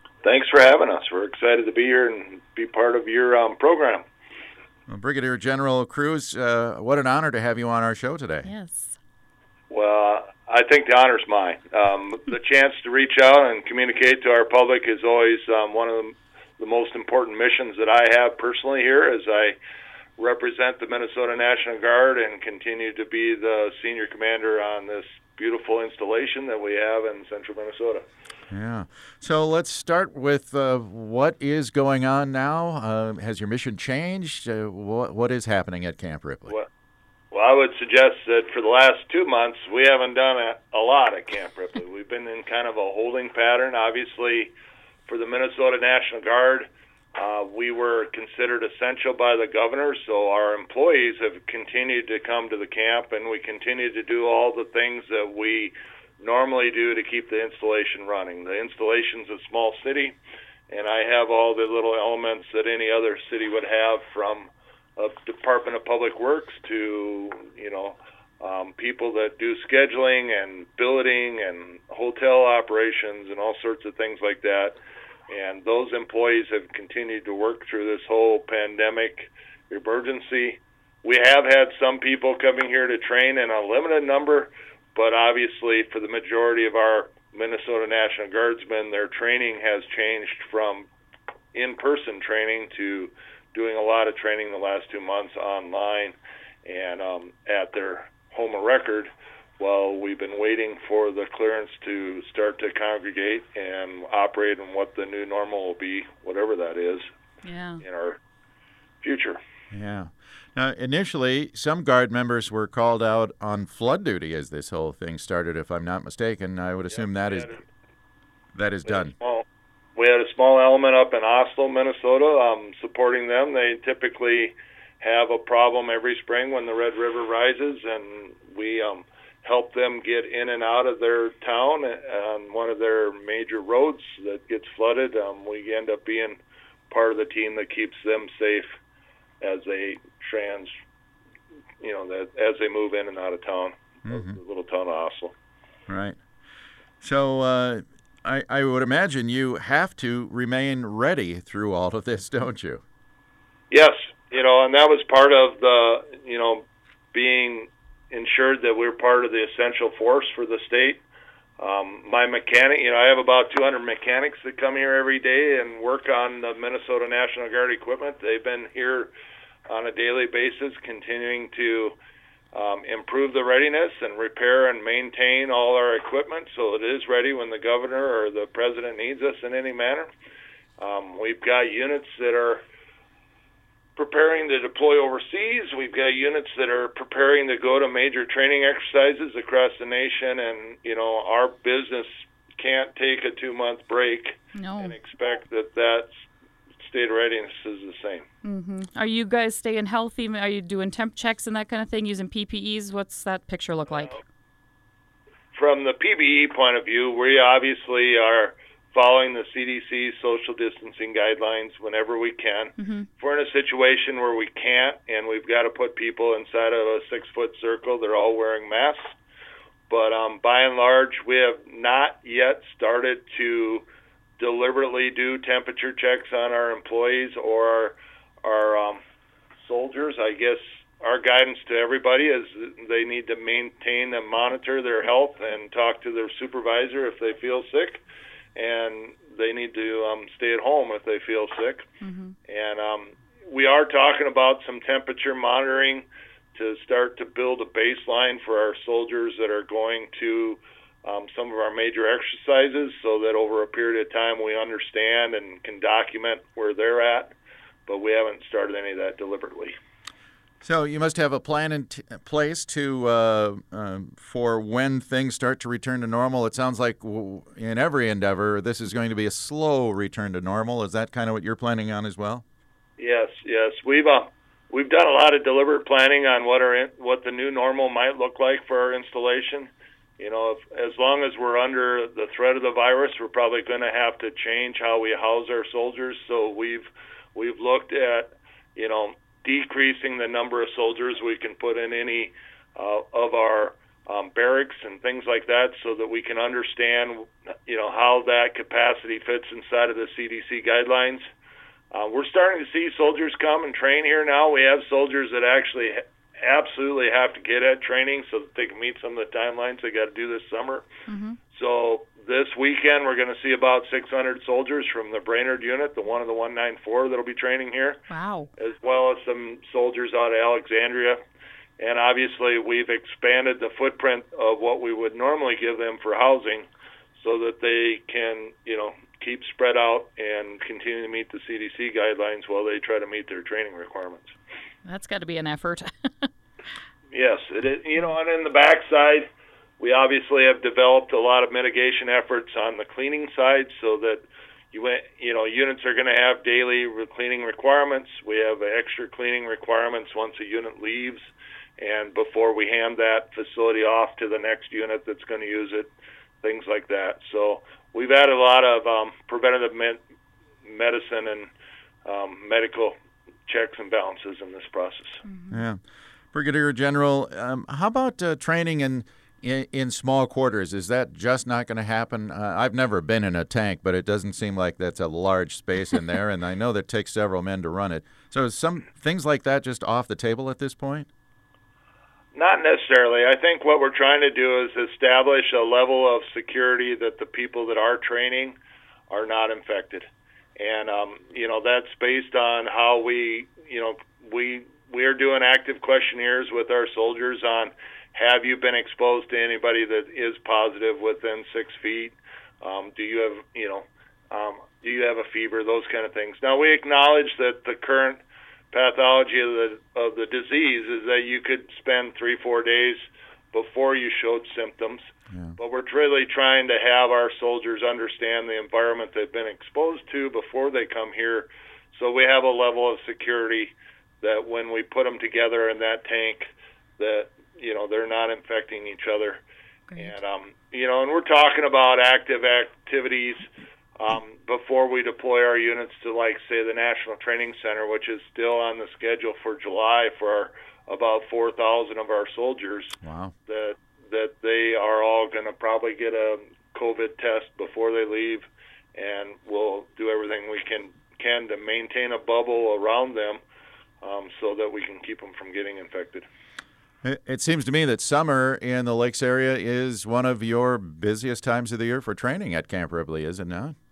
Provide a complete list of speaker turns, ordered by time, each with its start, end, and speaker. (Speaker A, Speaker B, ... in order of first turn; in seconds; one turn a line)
Speaker A: 0.2-4.0
Speaker B: 4.9-8.5
Speaker C: 8.4-9.0
Speaker A: 9.7-19.6
Speaker A: 20.2-28.0
Speaker B: 28.5-36.5
Speaker A: 37.3-44.5
Speaker A: 45.1-60.2
Speaker A: 60.7-74.8
Speaker A: 75.3-90.9
Speaker A: 91.5-107.1
Speaker C: 107.4-107.8
Speaker A: 107.8-108.2
Speaker A: 109.0-109.4
Speaker B: 109.7-117.6
Speaker A: 116.9-117.6
Speaker B: 118.5-119.1
Speaker A: 118.8-119.4
Speaker A: 120.0-138.7
Speaker A: 139.4-140.7
Speaker A: 141.8-145.3
Speaker B: 144.1-144.4
Speaker B: 145.9-146.2
Speaker B: 147.0-152.8
Speaker A: 153.7-161.0
Speaker A: 161.6-169.1
Speaker A: 169.7-171.9
Speaker A: 172.5-180.1
Speaker A: 180.8-182.6
Speaker A: 184.0-196.1
Speaker C: 194.6-194.9
Speaker A: 196.8-198.2
Speaker C: 198.4-204.2
Speaker A: 205.5-219.1
Speaker C: 212.8-213.1
Speaker A: 219.9-223.8
Speaker A: 224.4-229.0
Speaker A: 229.6-238.0
Speaker A: 238.6-241.8
Speaker C: 242.0-242.3
Speaker A: 242.5-257.3
Speaker A: 257.9-259.7
Speaker B: 260.6-272.4
Speaker A: 273.0-301.2
Speaker A: 301.9-310.9
Speaker C: 311.1-311.4
Speaker A: 311.5-318.0
Speaker C: 318.1-318.5
Speaker A: 318.6-321.2
Speaker A: 321.8-326.6
Speaker A: 327.2-334.3
Speaker C: 334.9-336.3
Speaker A: 337.1-339.3
Speaker A: 339.8-360.0
Speaker A: 360.6-361.5
Speaker A: 362.0-362.9
Speaker A: 363.5-365.2
Speaker C: 365.2-365.6
Speaker B: 365.5-365.8
Speaker B: 366.3-381.1
Speaker A: 382.3-388.6
Speaker A: 389.1-390.1
Speaker A: 390.6-408.2
Speaker A: 408.7-415.1
Speaker A: 415.6-429.4
Speaker A: 430.0-433.4
Speaker A: 434.0-453.4
Speaker B: 443.0-443.3
Speaker A: 454.0-456.2
Speaker B: 457.0-463.7